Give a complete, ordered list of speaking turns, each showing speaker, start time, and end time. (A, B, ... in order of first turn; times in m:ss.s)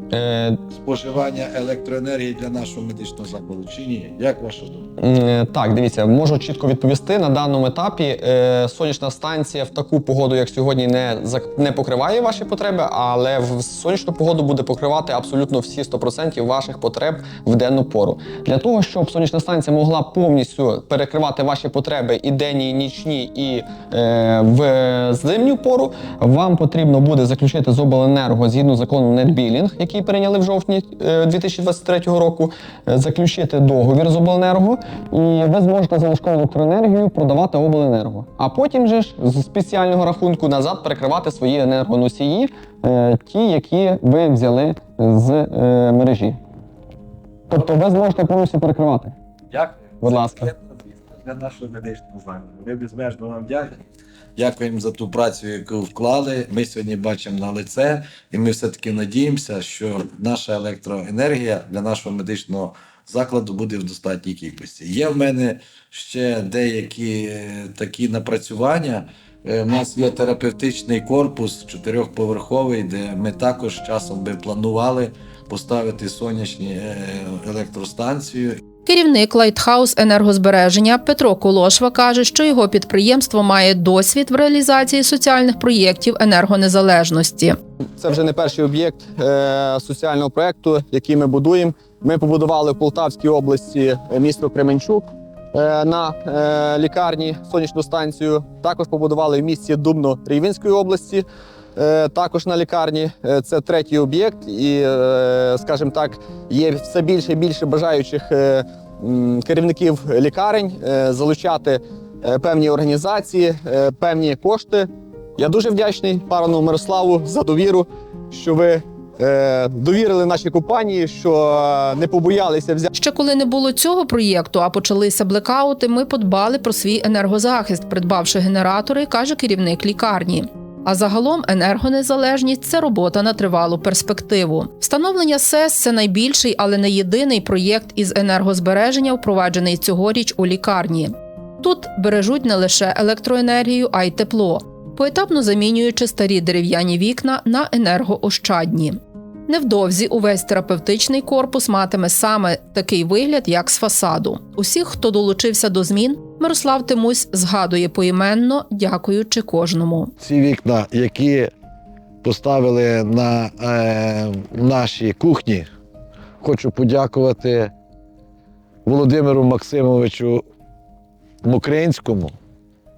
0:00.1-0:00.6 A
0:00.7-0:04.9 B
0:05.0-0:46.4 A
0:47.5-0:49.2 A
0:49.5-0:53.8 B
0:50.0-0:50.5 A
0:54.4-1:18.6 B
1:18.8-1:27.6 C
1:28.0-2:02.9 A
2:02.9-2:40.1 C
2:40.2-2:41.5 B
2:42.2-2:45.7 B
2:46.4-2:47.7 B
2:48.8-2:50.4 B
2:51.4-2:52.3 B